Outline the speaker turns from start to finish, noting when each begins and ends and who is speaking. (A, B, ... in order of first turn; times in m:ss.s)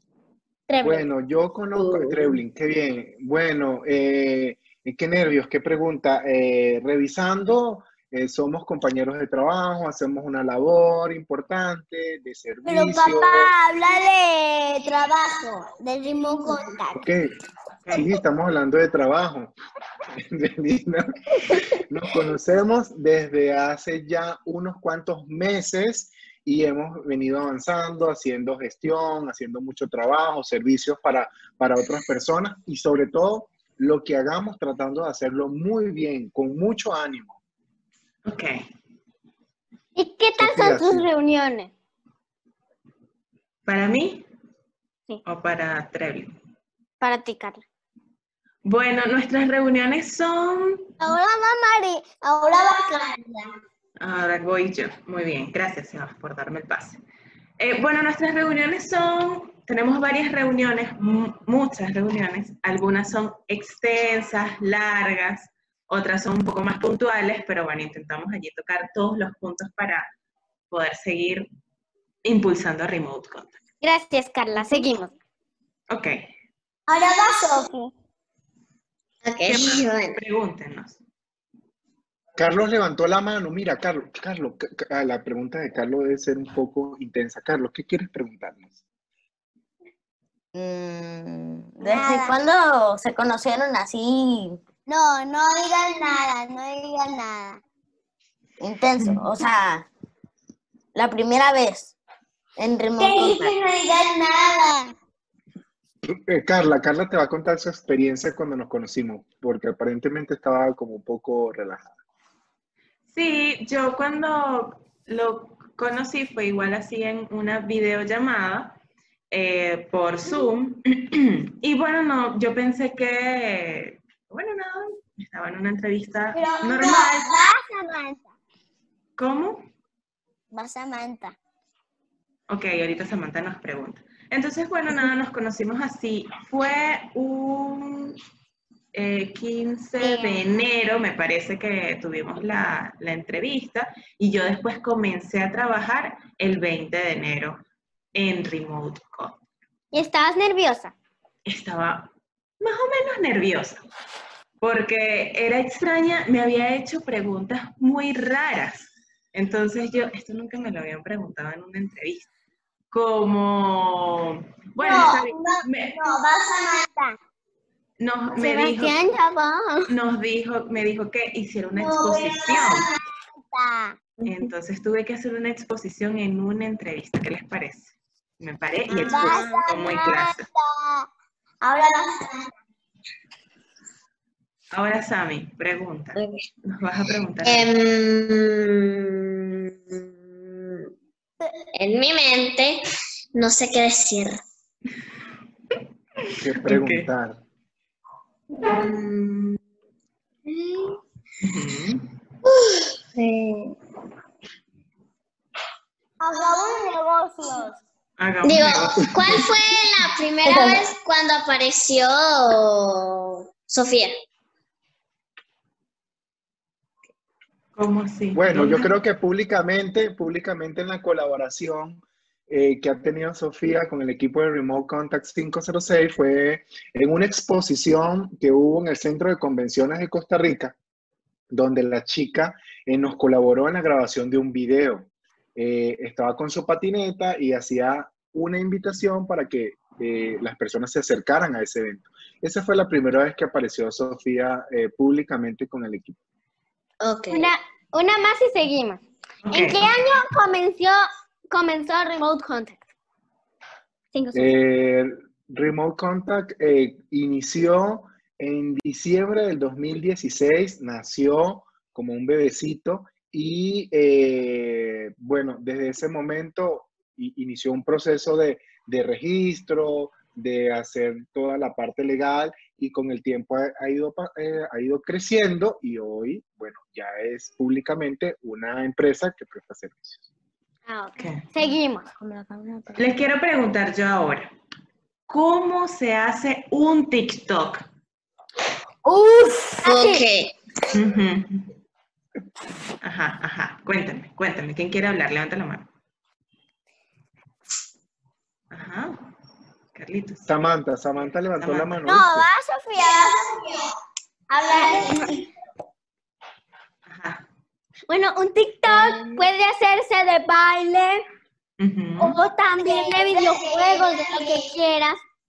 0:00.7-0:01.0 A
0:00.8-0:13.5 B
0:01.8-0:02.4 C
0:12.6-0:17.0 D
0:16.9-0:17.4 B
0:17.9-0:19.5 B
0:20.2-0:37.4 B
0:38.2-0:38.6 E
0:40.0-0:41.7 A
0:40.4-0:41.0 B
0:43.6-0:44.2 E
0:45.2-0:46.3 E
0:47.0-0:47.6 A
0:48.6-0:50.9 E
0:51.0-0:53.5 D
0:54.0-0:57.0 E
0:57.6-1:10.1 E
1:10.7-1:11.5 E
1:12.2-1:13.6 E
1:13.8-1:15.1 A
1:15.9-1:16.2 E
1:16.9-1:17.9 D
1:19.2-1:20.2 C
1:19.4-1:21.0 E
1:22.4-1:28.7 B
1:30.5-1:34.6 F
1:31.8-1:32.4 D
1:34.9-1:37.6 D
1:38.6-1:39.9 F
1:39.0-1:39.2 E
1:40.9-1:41.9 F
1:42.6-1:43.6 F
1:43.0-1:44.9 D
1:46.1-1:51.9 B
1:53.1-1:58.8 E
1:59.3-2:07.3 E
2:06.3-2:08.3 D
2:09.2-2:09.7 E
2:10.5-2:11.4 D
2:12.5-2:18.2 E
2:18.9-2:27.6 E
2:20.0-2:20.4 A
2:28.1-2:29.4 E
2:29.9-2:30.9 A
2:31.4-2:32.1 E
2:32.6-2:33.8 E
2:34.6-2:42.3 E
2:42.9-2:46.2 E
2:44.8-2:47.2 D
2:48.0-2:49.1 E
2:48.3-2:49.9 A
2:49.9-2:52.8 E
2:51.7-2:52.9 D
2:53.5-2:54.0 D
2:54.2-3:00.5 E
2:58.9-2:59.6 A
2:59.0-3:01.1 D
3:01.6-3:02.4 D
3:04.7-3:07.7 E
3:06.2-3:06.4 C
3:07.4-3:10.9 C
3:11.7-3:12.8 C
3:13.3-3:14.4 C
3:16.3-3:17.1 E
3:16.4-3:17.4 B
3:18.6-3:19.6 C
3:20.5-3:21.0 C
3:21.4-3:22.1 E
3:22.4-3:23.8 C
3:26.2-3:27.8 D
3:28.2-3:29.5 E
3:28.4-3:34.1 C
3:30.4-3:30.8 F
3:37.7-3:38.9 E
3:38.3-3:50.8 B
3:51.5-4:06.2 B
4:07.0-4:07.5 C
4:07.3-4:09.0 A
4:09.4-4:09.9 E
4:09.5-4:12.8 A
4:14.1-4:14.6 A
4:14.3-4:40.2 B
4:40.8-4:42.0 A
4:41.2-4:41.4 E
4:42.2-4:43.0 F
4:43.0-4:44.5 E
4:45.3-4:47.8 E
4:49.0-4:49.9 F
4:49.8-4:50.2 A
4:49.8-4:50.5 C
4:50.9-4:51.7 E
4:53.0-4:55.9 E
4:58.7-4:59.2 E
4:59.9-5:00.5 E
5:00.5-5:02.5 B
5:01.6-5:02.1 E
5:02.0-5:03.9 D
5:04.5-5:05.3 D
5:04.7-5:05.3 A
5:07.1-5:07.4 E
5:08.1-5:11.2 A
5:11.8-5:12.4 E
5:12.2-5:15.2 A
5:12.8-5:14.8 D